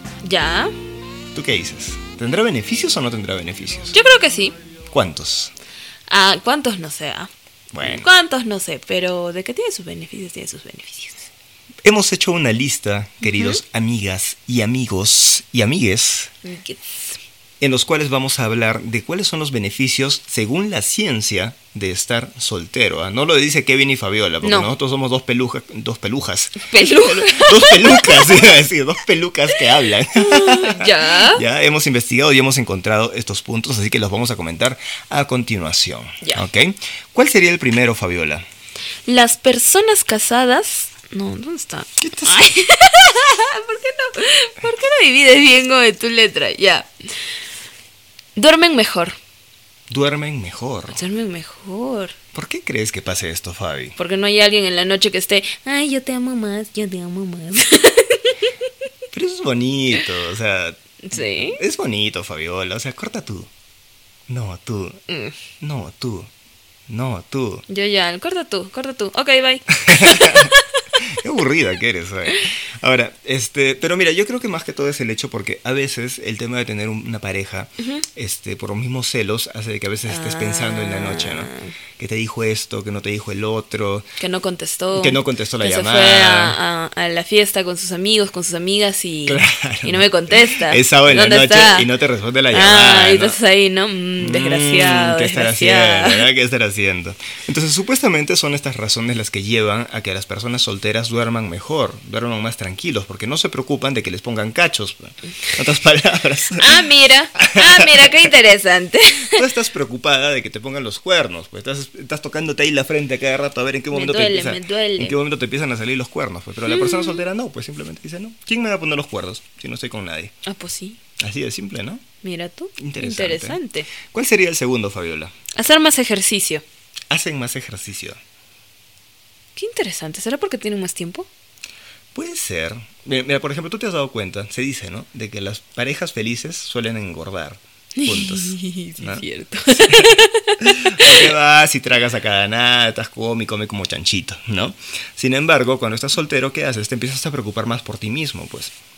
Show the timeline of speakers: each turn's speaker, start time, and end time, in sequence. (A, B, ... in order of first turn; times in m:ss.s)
0:00.2-0:00.7 A
0:01.4-0:04.0 B
0:03.9-0:04.6 A
0:04.9-0:05.5 B
0:06.1-0:11.3 A
0:07.7-0:08.1 B
0:11.8-0:16.3 B
0:13.2-0:13.6 A
0:16.4-0:17.2 A
0:17.6-0:38.4 B
0:24.4-0:24.7 A
0:26.6-0:28.6 A
0:30.1-0:31.4 A
0:39.1-0:46.9 A
0:42.0-0:42.5 B
0:48.4-0:49.2 A
0:49.9-0:51.0 B
0:50.9-0:52.2 A
0:52.3-0:54.0 B
0:54.0-0:58.5 A
0:59.1-1:03.5 B
1:01.0-1:01.6 A
1:04.3-1:05.0 B
1:05.1-1:05.4 A
1:05.6-1:06.3 B
1:06.9-1:07.6 B
1:07.7-1:10.6 A
1:09.9-1:10.5 B
1:11.2-1:24.1 B
1:20.1-1:21.7 A
1:24.2-1:31.9 A
1:24.9-1:26.6 B
1:29.3-1:33.4 B
1:32.5-1:36.3 A
1:34.2-1:46.8 B
1:46.6-1:49.4 A
1:47.4-1:48.3 B
1:49.2-2:00.3 B
1:53.9-1:55.1 A
1:56.7-1:57.2 A
2:00.4-2:01.0 A
2:01.2-2:02.0 B
2:02.2-2:03.9 A
2:02.8-2:05.3 B
2:05.6-2:06.6 A
2:07.1-2:08.2 B
2:09.6-2:11.3 A
2:12.1-2:28.7 B
2:18.0-2:21.2 A